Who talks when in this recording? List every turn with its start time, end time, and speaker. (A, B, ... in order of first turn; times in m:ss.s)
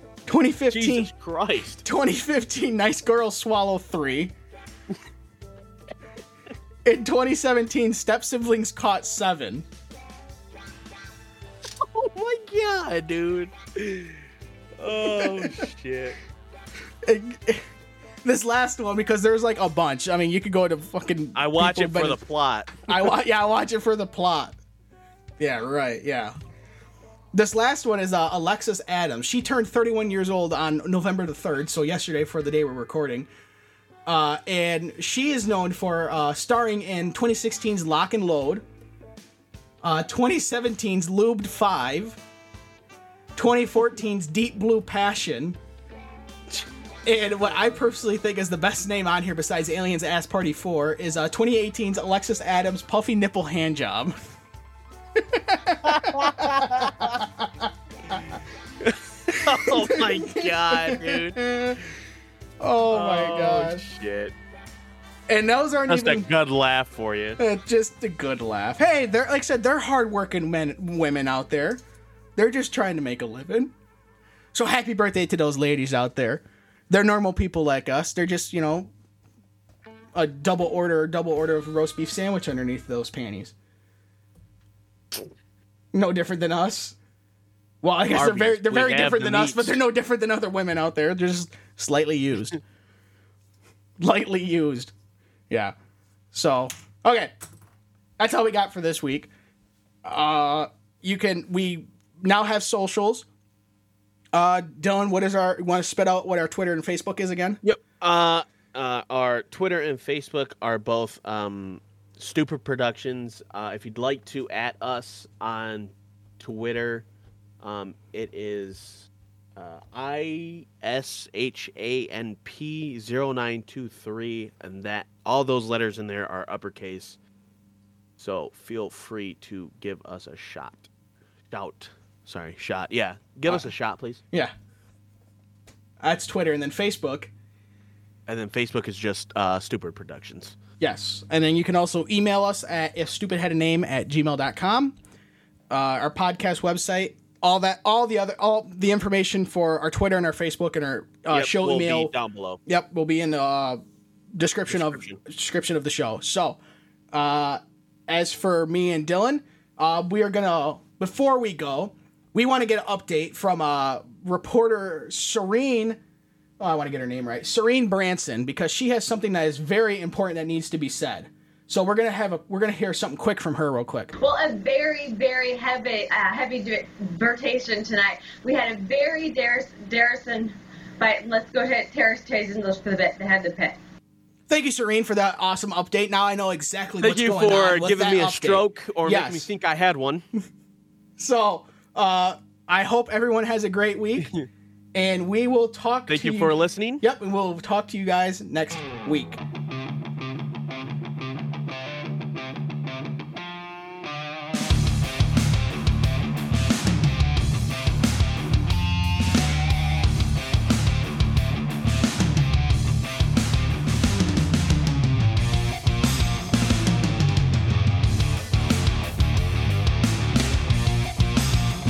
0:00.2-0:01.1 A
0:00.7-0:01.8 B
0:01.8-0:04.3 A
0:06.8-0:09.6 A
0:11.7-0:14.2 B
0:14.8-0:16.2 B
0:15.0-0:15.5 A
0:17.0-0:17.6 A
0:18.2-0:22.2 A
0:21.3-0:22.9 B
0:22.8-0:24.6 A
0:25.4-0:26.4 A
0:27.3-0:33.3 A
0:34.0-0:38.6 A
0:39.8-0:42.2 A
0:43.3-0:45.6 A
0:47.0-0:54.1 A
0:55.1-0:58.2 A
0:55.8-0:57.2 B
0:58.8-1:01.4 B
0:59.4-1:01.8 A
1:02.6-1:04.0 A
1:02.9-1:04.3 B
1:05.3-1:06.3 A
1:05.9-1:07.4 B
1:07.4-1:11.8 A
1:12.4-1:13.7 A
1:14.5-1:18.9 A
1:20.1-1:23.5 A
1:25.9-1:27.0 A
1:27.8-1:32.6 A
1:28.1-1:29.8 B
1:34.0-1:34.9 A
1:35.5-1:35.7 A
1:36.3-1:37.3 A
1:38.2-1:39.3 A
1:40.0-1:43.3 A
1:44.3-1:47.6 A
1:47.6-1:57.0 B
1:57.6-2:07.2 B
2:08.2-2:10.9 B
2:11.5-2:14.2 B
2:16.0-2:17.3 A
2:18.3-2:20.6 B
2:20.8-2:25.0 A
2:25.7-2:32.1 A
2:31.3-2:32.6 B
2:32.6-2:33.8 A
2:34.3-2:36.6 A
2:34.7-2:35.2 B
2:37.1-2:46.0 A
2:46.6-2:54.1 A
2:54.2-3:03.8 C
3:04.5-3:09.5 A
3:07.0-3:10.2 B
3:11.2-3:14.3 A
3:14.2-3:14.5 B
3:14.9-3:19.4 A
3:16.1-3:17.0 B